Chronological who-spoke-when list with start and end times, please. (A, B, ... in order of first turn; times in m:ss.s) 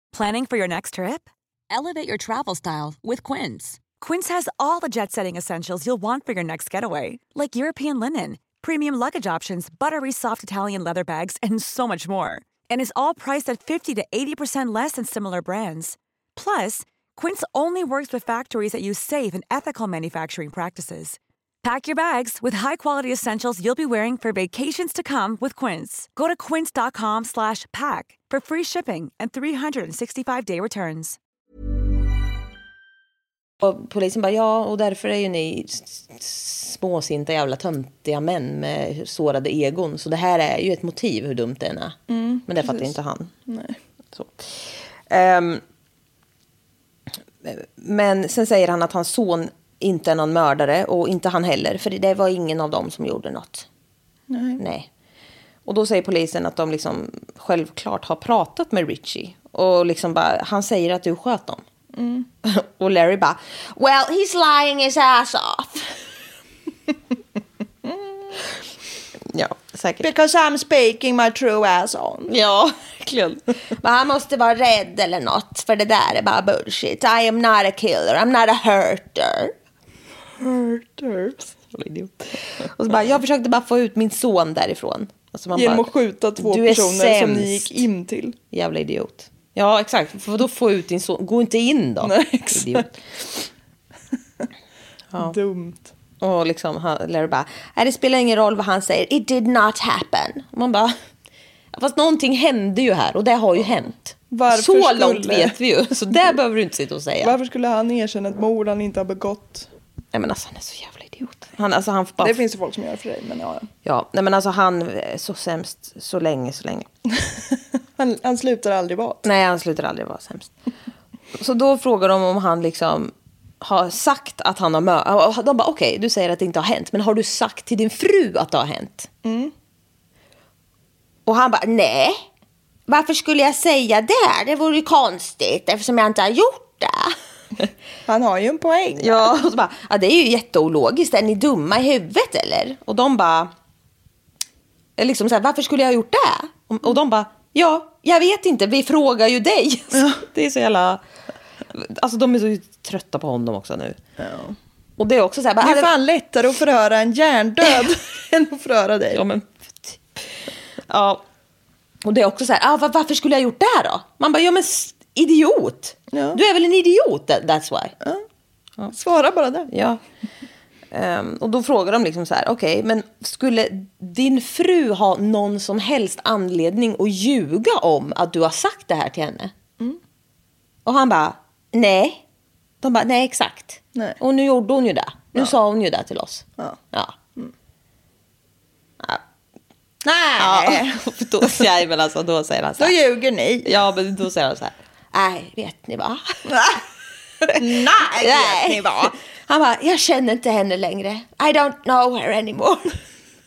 0:00.1-0:31.2 A
0:33.6-0:43.3 B
0:42.1-0:43.0 C
0:43.5-0:43.8 C
0:44.1-0:45.6 B
0:47.4-0:53.7 B
0:54.3-0:54.6 C
0:54.6-0:54.9 B
0:55.7-1:01.6 B
1:01.9-1:02.3 C
1:02.4-1:05.9 B
1:09.3-1:10.1 B
1:10.0-1:12.3 C
1:12.3-1:19.5 B
1:20.4-1:21.6 C
1:21.7-1:27.8 B
1:25.6-1:28.4 C
1:28.5-1:32.9 B
1:32.0-1:32.9 C
1:35.2-1:35.9 C
1:36.2-1:41.0 B
1:41.7-1:47.4 B
1:44.3-1:45.6 C
1:47.2-1:49.7 C
1:50.1-1:52.4 B
1:52.2-1:53.7 C
1:53.8-1:56.9 B
1:58.0-1:59.2 C
1:59.2-2:00.5 B
2:01.4-2:09.1 B
2:09.2-2:09.5 C
2:11.3-2:12.2 B
2:12.9-2:17.2 B
2:18.1-2:19.3 C
2:19.0-2:23.5 B
2:25.0-2:31.0 B
2:29.9-2:30.2 C
2:31.7-2:34.0 B
2:34.2-2:34.6 C
2:35.0-2:35.9 B
2:35.6-2:39.2 C
2:39.1-2:40.3 B
2:40.9-2:41.2 B
2:42.0-2:48.0 B
2:46.1-2:46.4 C
2:48.9-2:49.7 C
2:49.7-2:50.0 B
2:50.9-2:59.5 B
3:00.9-3:02.2 B
3:02.8-3:07.2 B
3:10.0-3:11.0 C
3:10.4-3:13.0 B
3:12.8-3:13.7 C
3:13.6-3:16.4 B
3:16.5-3:16.8 C
3:17.5-3:19.1 C
3:18.2-3:23.0 B